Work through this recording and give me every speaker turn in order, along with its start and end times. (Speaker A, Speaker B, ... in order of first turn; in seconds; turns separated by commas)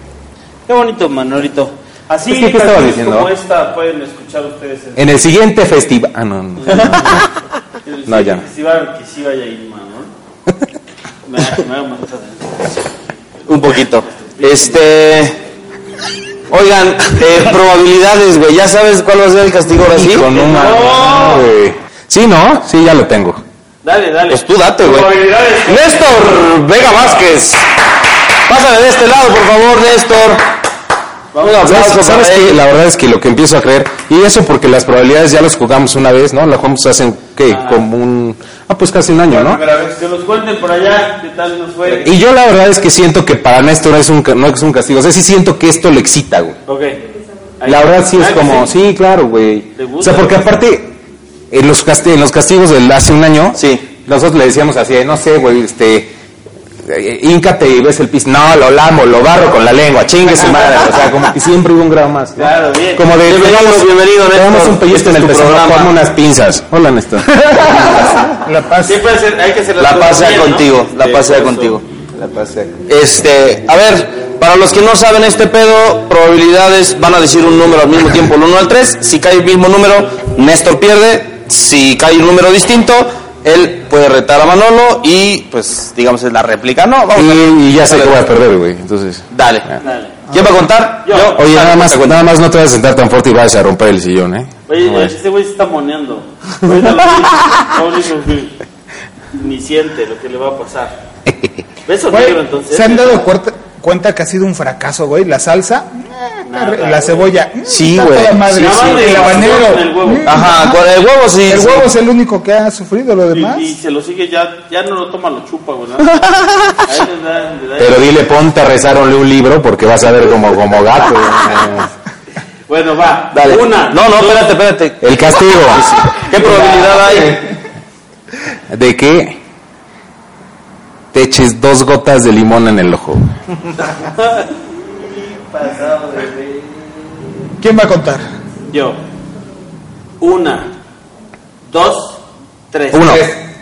Speaker A: 0.7-5.2, Speaker B: 2.3-3.3, Speaker B: 5.0-7.3, Speaker A: 6.6-7.3, Speaker A: 7.8-10.1, Speaker B: 8.1-8.4, Speaker A: 11.3-12.8, Speaker C: 13.5-15.4, Speaker A: 14.1-14.8, Speaker C: 16.5-20.3, Speaker B: 19.9-23.4, Speaker A: 20.3-21.5, Speaker A: 23.8-26.4, Speaker C: 24.3-25.1, Speaker C: 25.7-27.6, Speaker C: 28.5-30.5, Speaker A: 31.3-31.8, Speaker C: 31.4-32.6, Speaker B: 31.6-39.6, Speaker A: 37.5-37.9, Speaker A: 39.3-42.1, Speaker B: 42.0-46.6, Speaker A: 46.7-47.0, Speaker A: 47.6-48.7, Speaker B: 47.6-51.0, Speaker A: 49.8-50.5, Speaker B: 51.5-56.1, Speaker C: 53.5-53.9, Speaker B: 56.8-68.2, Speaker A: 62.4-63.1, Speaker C: 63.3-65.9, Speaker D: 68.4-69.0, Speaker A: 68.8-71.8, Speaker C: 69.8-71.8, Speaker B: 72.1-72.8, Speaker C: 72.9-88.2, Speaker B: 87.1-89.3, Speaker C: 89.3-89.7, Speaker A: 89.8-90.2, Speaker C: 90.3-92.2, Speaker A: 91.0-91.4, Speaker B: 91.4-95.1, Speaker A: 94.7-98.6, Speaker A: 99.3-101.0, Speaker B: 101.3-101.6, Speaker A: 101.9-103.3, Speaker D: 102.1-110.8, Speaker A: 106.4-107.3, Speaker C: 107.7-109.0, Speaker A: 108.5-110.4, Speaker C: 110.2-111.9, Speaker D: 111.5-113.8, Speaker A: 113.3-118.2, Speaker B: 117.8-121.9, Speaker A: 122.7-124.5, Speaker C: 123.3-127.5, Speaker B: 125.0-127.4, Speaker A: 126.3-127.0, Speaker B: 128.7-129.4, Speaker B: 131.1-133.3, Speaker A: 133.8-137.3, Speaker D: 137.6-138.2, Speaker A: 138.7-139.0, Speaker A: 140.2-140.7, Speaker A: 141.7-142.2, Speaker A: 142.7-143.3, Speaker B: 142.9-143.4